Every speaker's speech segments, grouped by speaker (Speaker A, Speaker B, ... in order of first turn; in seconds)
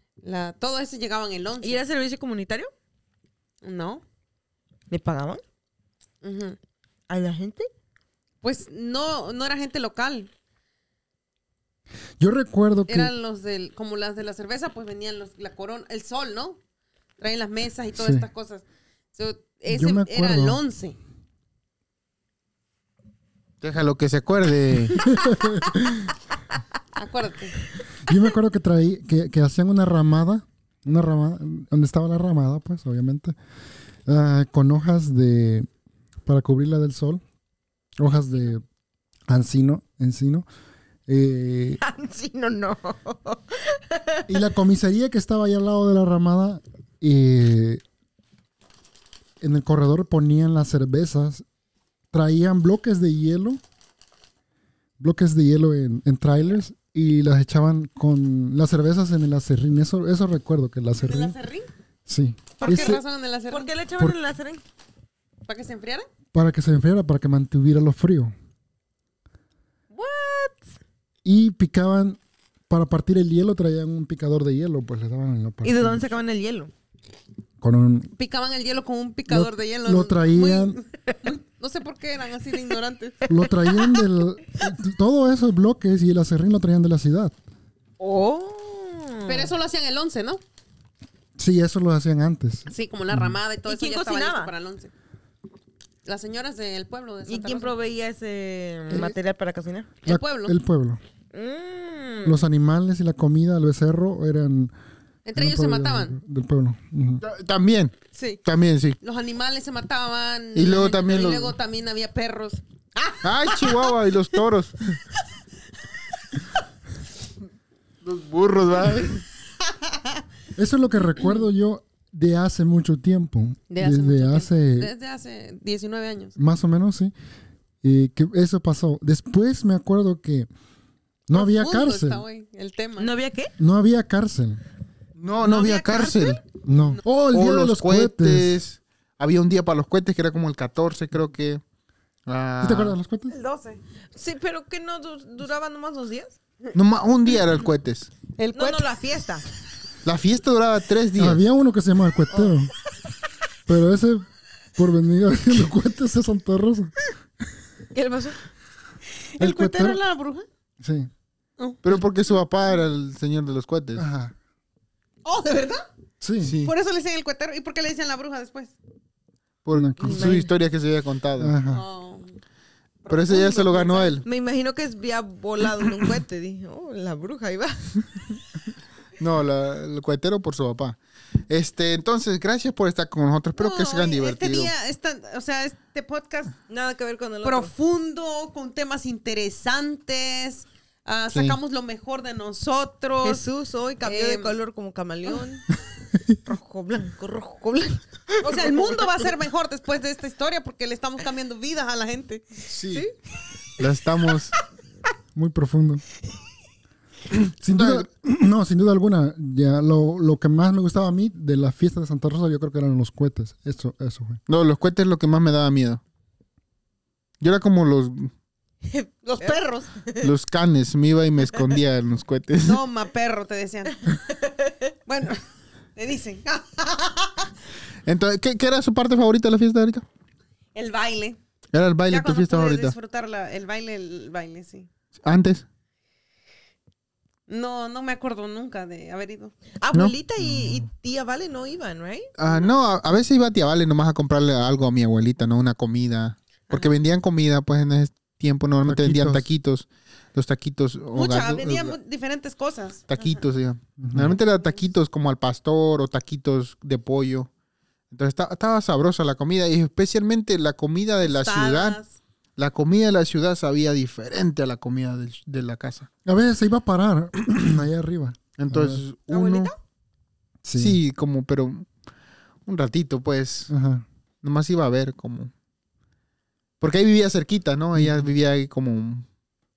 Speaker A: 0.2-1.8, 3.6-4.0, 6.2-6.6, 8.4-10.3, 12.9-16.6, 17.2-21.0, 26.9-27.6, 61.0-61.7, 62.6-63.7, 65.4-66.1, 78.2-83.3, 89.2-90.4, 92.7-94.9, 96.0-97.7, 100.0-100.5, 105.2-106.2, 108.1-108.4, 109.0-113.9, 123.7-126.3, 131.3-133.1, 135.3-137.0, 143.3-143.8, 148.3-148.9, 159.3-160.4, 161.6-162.0, 165.2-165.9, 166.6-168.7, 171.7-172.4, 173.0-174.1, 183.6-186.6, 187.4-193.4, 194.0-194.6, 198.4-203.1, 219.2-219.9, 222.6-224.1, 225.1-225.4, 225.9-227.5, 230.7-231.4, 232.1-234.9, 237.5-239.5, 251.1-253.4, 254.3-254.7, 261.2-262.1, 269.3-269.7
Speaker B: 1.6-2.7, 4.9-5.4, 7.1-7.7, 41.8-44.3, 62.6-64.6, 69.9-70.7, 75.6-76.7, 83.3-84.0, 88.0-89.5, 93.7-94.5, 97.2-99.9, 101.3-102.4, 133.0-133.5, 144.1-146.4, 148.5-149.4, 157.9-158.4, 170.0-170.5, 174.2-178.3, 186.7-187.7, 193.2-195.7, 196.4-199.1, 218.8-220.0, 224.1-224.8, 239.8-242.3
Speaker C: 12.2-13.1, 17.9-18.3, 19.7-20.6, 24.9-26.1, 28.0-33.3, 34.1-35.7, 36.2-37.2, 38.0-38.6, 39.3-40.5, 41.1-41.8, 44.3-47.8, 49.4-51.4, 52.1-53.6, 55.0-61.4, 62.1-63.0, 66.3-68.3, 71.2-76.2, 77.6-78.1, 79.3-80.8, 83.3-87.3, 91.4-93.4, 98.9-99.1, 100.0-101.0, 102.2-104.7, 105.3-107.2, 120.5-124.9, 126.3-127.1, 127.8-130.5, 131.3-132.2, 133.6-134.6, 136.6-138.6, 142.6-143.3, 151.2-152.7, 153.7-154.2, 154.8-156.9, 159.4-160.0, 160.8-161.1, 163.9-164.3, 166.2-166.6, 169.7-170.4, 171.4-171.8, 205.3-206.0, 207.6-214.4, 240.4-240.8, 248.8-249.5, 254.0-254.3, 266.2-269.0, 270.6-271.0, 273.7-274.0, 277.9-278.3
Speaker D: 23.6-25.1, 107.2-109.0, 110.5-111.6, 113.2-114.8, 118.0-119.2, 135.2-136.4, 137.3-141.6, 142.2-143.0, 146.7-148.1, 150.0-151.4, 161.8-164.1, 166.4-166.7, 169.6-171.6, 173.1-174.2, 179.2-184.7, 191.3-191.6, 202.7-203.1, 203.8-204.5, 207.7-208.1, 214.5-216.0, 217.4-218.3, 220.2-222.8, 228.1-230.0, 231.7-232.9, 235.2-235.6, 242.4-252.0, 253.1-257.5, 258.1-262.0, 262.6-266.1, 268.6-269.7, 270.7-271.9, 272.6-273.7, 274.4-275.5, 276.8-279.2